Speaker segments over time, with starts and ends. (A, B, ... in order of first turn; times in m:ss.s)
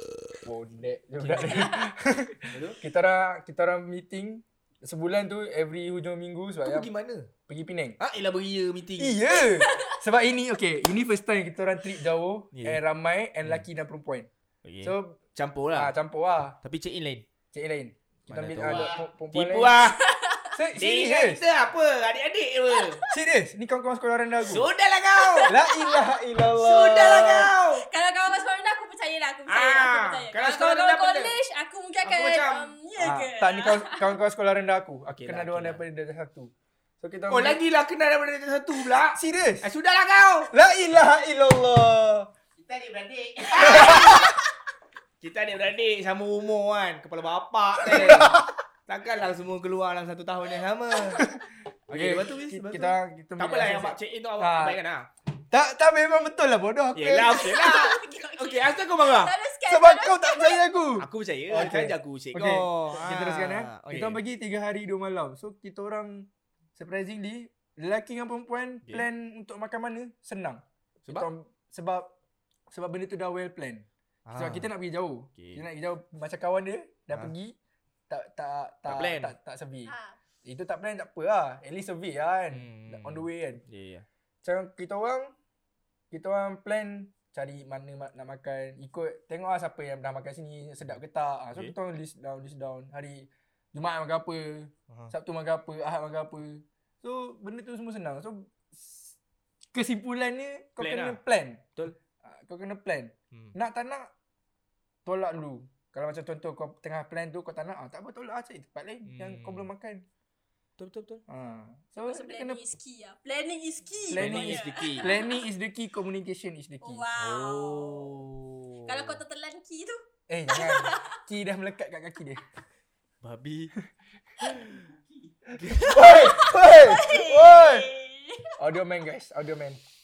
0:00.4-0:06.9 A
0:01.2-0:01.7 B
0:01.5-0:01.8 C
0:02.5-0:02.8 B
0:06.6-0:07.3 B
0:07.5-0:08.0 A
0:08.0-0:09.2 B
0:09.0-0:14.3 A
0:09.4-0:10.0 C
0:12.5-0:12.8 B
0:14.6-0:16.0 B
0:14.8-0:15.2 A
0:15.7-0:16.6 A
0:16.6-0:17.3 B
0:17.5-0:19.8 A
0:18.3-0:20.1 B
0:18.7-0:19.0 D
0:19.8-0:20.6 C
0:20.5-0:21.4 A
0:20.8-0:23.0 B
0:22.7-0:23.2 C
0:23.1-0:24.7 A
0:24.4-0:25.5 B
0:25.2-0:26.1 C
0:25.5-0:27.5 A
0:26.5-0:27.8 B
0:26.9-0:34.1 C
0:29.5-0:31.3 B
0:32.0-0:32.7 B
0:33.0-0:37.6 A
0:35.1-0:35.8 B
0:37.3-0:40.5 B
0:39.0-0:39.7 A
0:40.5-0:42.3 A
0:42.6-0:43.9 D
0:43.5-0:44.3 B
0:43.8-0:44.2 A
0:43.8-0:44.3 C
0:45.2-0:51.3 B
0:47.8-0:48.6 A
0:51.2-0:54.8 A
0:51.9-0:55.1 B
0:55.5-0:57.6 A
0:57.0-0:59.3 B
0:57.2-1:00.7 C
0:59.7-1:12.1 A
1:01.0-1:04.2 B
1:08.8-1:09.1 B
1:12.7-1:17.6 A
1:14.3-1:14.7 B
1:15.4-1:15.6 B
1:18.1-1:19.9 A
1:18.9-1:19.3 B
1:19.9-1:20.2 C
1:20.4-1:23.6 A
1:22.5-1:24.1 B
1:24.4-1:25.3 A
1:26.1-1:39.2 A
1:39.7-1:41.7 A
1:40.8-1:41.2 B
1:42.2-1:44.1 A
1:45.0-1:50.0 A
1:49.0-1:49.7 B
1:50.8-1:51.2 B
1:51.3-1:52.6 A
1:52.0-1:55.5 C
1:54.1-1:57.1 A
1:54.1-1:55.1 B
1:56.8-1:58.2 C
1:57.2-1:59.2 B
1:58.9-2:01.2 C
2:00.3-2:02.4 A
2:03.2-2:03.7 B
2:04.4-2:04.8 B
2:04.6-2:05.4 D
2:05.6-2:06.4 B
2:05.8-2:07.9 A
2:06.0-2:08.6 C
2:08.6-2:09.8 A